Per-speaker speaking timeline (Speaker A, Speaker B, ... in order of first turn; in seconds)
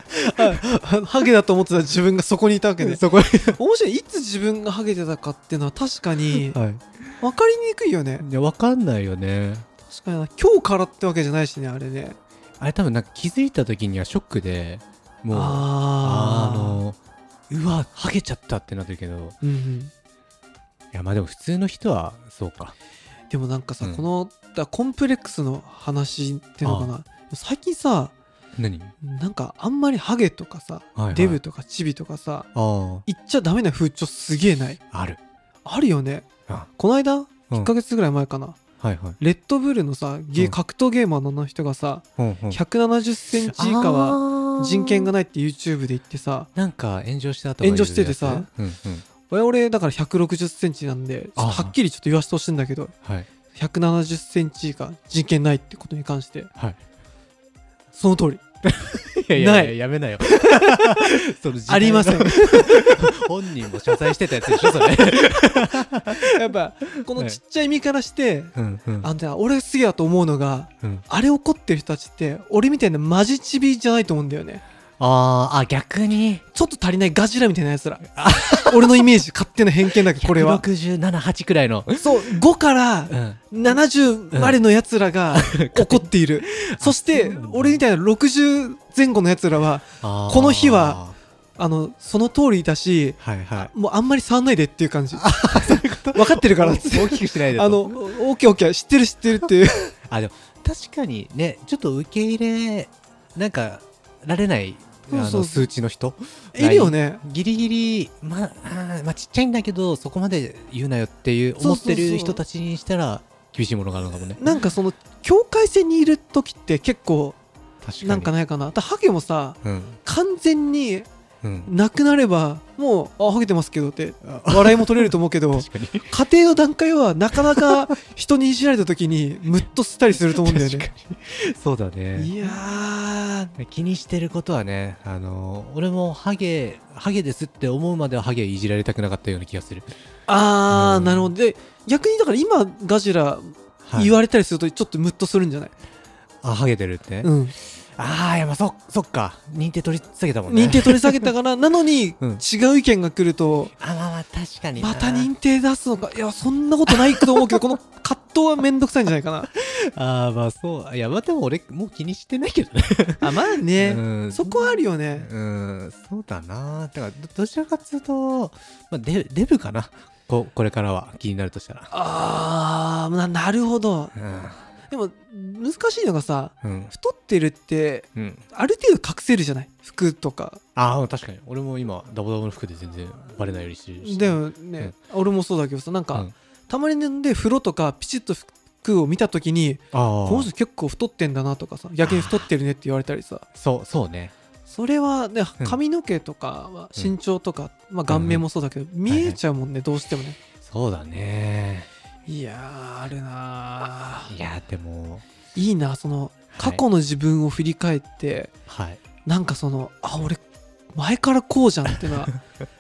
Speaker A: 0.2-3.0, 3.5-6.6, 7.2-8.2, 9.9-12.2, 15.3-16.8, 19.4-19.9, 23.3-28.1, 29.0-32.5, 33.0-34.8, 35.6-38.6, 39.2-46.5, 47.6-48.5, 49.3-52.9, 53.5-56.5, 57.9-58.4, 59.3-59.7, 60.5-61.1, 61.7-62.9, 66.2-74.6, 76.5-80.6, 82.0-91.0, 91.6-99.9, 105.1-105.7, 106.5-107.2, 111.6-112.4, 114.3-117.4, 118.0-121.1, 121.7-130.9, 132.2-133.5, 140.3-145.7, 147.2-147.5, 150.5-153.7, 154.8-159.5, 163.2-165.3, 171.9-174.1, 174.9-180.6, 184.0-193.4, 194.7-200.4, 202.3-204.3, 205.5-208.5, 209.2-210.4, 210.9-212.3
Speaker B: 2.8-3.6, 6.3-7.0, 8.2-9.7, 12.6-17.0, 17.5-19.4, 20.9-22.7, 23.8-24.1, 26.6-26.9, 28.6-28.9, 30.9-31.4, 32.5-33.0, 34.9-35.2, 38.8-39.2, 42.2-42.6, 43.5-45.1, 46.5-49.0, 51.4-51.7, 58.6-66.3, 67.1-67.4, 68.5-69.1, 75.0-76.4, 78.1-79.0, 80.2-82.2, 83.1-83.5, 84.3-84.6, 85.3-87.8, 90.0-91.2, 93.2-93.7, 95.2-98.0, 100.1-114.5, 117.8-118.3, 119.6-120.0, 121.4-121.7, 124.3-126.1, 127.3-127.7, 130.3-132.3, 133.6-139.9, 140.7-141.3, 143.8-144.1, 146.4-151.3, 153.8-155.3, 156.9-157.6, 159.5-171.9, 174.1-174.6, 176.6-176.9, 178.2-178.4, 180.7-184.9, 189.9-190.5, 192.0-192.5, 193.6-194.3, 198.1-198.4, 199.1-199.4, 200.6-201.9, 204.3-205.2, 206.5-206.8, 208.7-209.0